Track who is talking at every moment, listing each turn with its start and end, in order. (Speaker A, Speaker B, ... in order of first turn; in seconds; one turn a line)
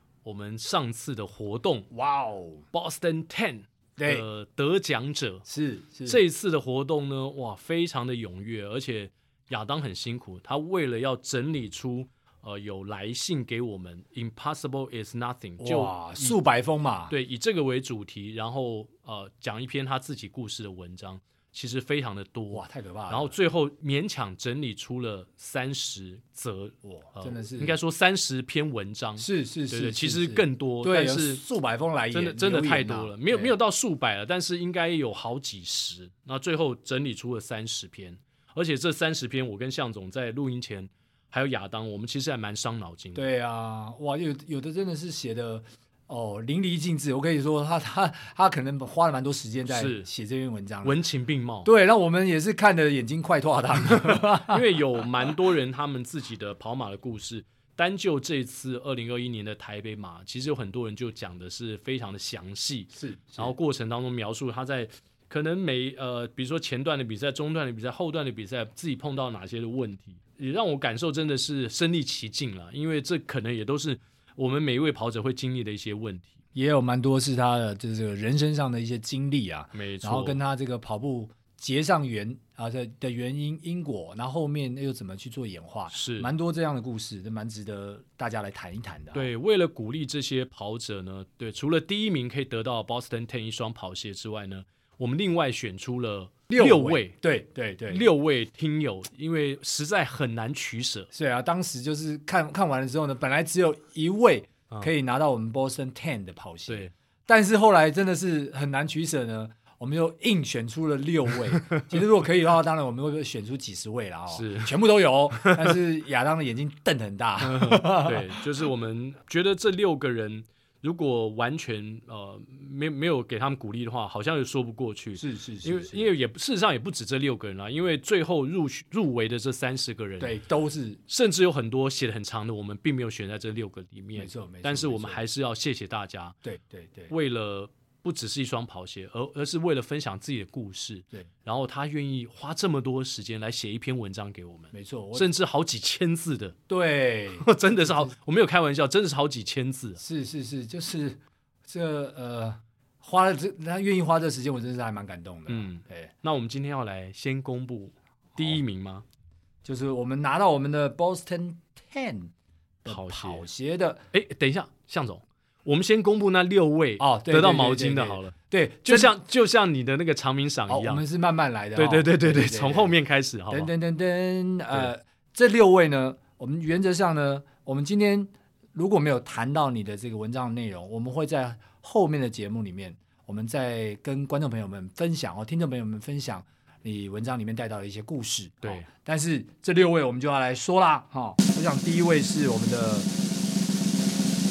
Speaker A: 0.2-1.9
Speaker B: 1.9-2.7
Speaker A: 2.7-5.5
Speaker B: 4.0-4.3
Speaker B: 5.5-6.2
Speaker A: 6.1-16.4
Speaker B: 15.6-17.1
Speaker A: 17.1-31.4
Speaker B: 22.5-23.3
Speaker B: 26.8-27.8
Speaker B: 29.2-33.6
Speaker A: 32.1-43.2
Speaker B: 43.1-51.0
Speaker A: 49.7-50.1
Speaker A: 50.8-51.7
Speaker B: 51.6-54.6
Speaker A: 54.1-76.4
Speaker B: 62.9-63.5
Speaker B: 76.5-89.3
Speaker A: 79.7-80.4
Speaker A: 85.9-86.3
Speaker A: 89.1-97.2
Speaker B: 96.5-98.1
Speaker A: 97.9-101.1
Speaker B: 101.1-118.4
Speaker A: 114.3-114.8
Speaker A: 115.3-115.8
Speaker A: 117.4-130.4
Speaker B: 125.2-126.1
Speaker B: 130.2-131.0
Speaker A: 131.1-136.4
Speaker B: 134.2-135.2
Speaker B: 136.4-137.1
Speaker A: 137.1-146.6
Speaker B: 144.7-145.3
Speaker B: 146.7-148.1
Speaker A: 147.4-150.0
Speaker B: 150.0-156.1
Speaker A: 155.5-159.0
Speaker B: 159.6-162.3
Speaker B: 162.8-164.0
Speaker A: 162.9-163.5
Speaker A: 164.1-171.0
Speaker B: 167.0-169.1
Speaker B: 170.7-172.9
Speaker A: 171.8-173.7
Speaker B: 173.5-193.1
Speaker A: 188.6-188.9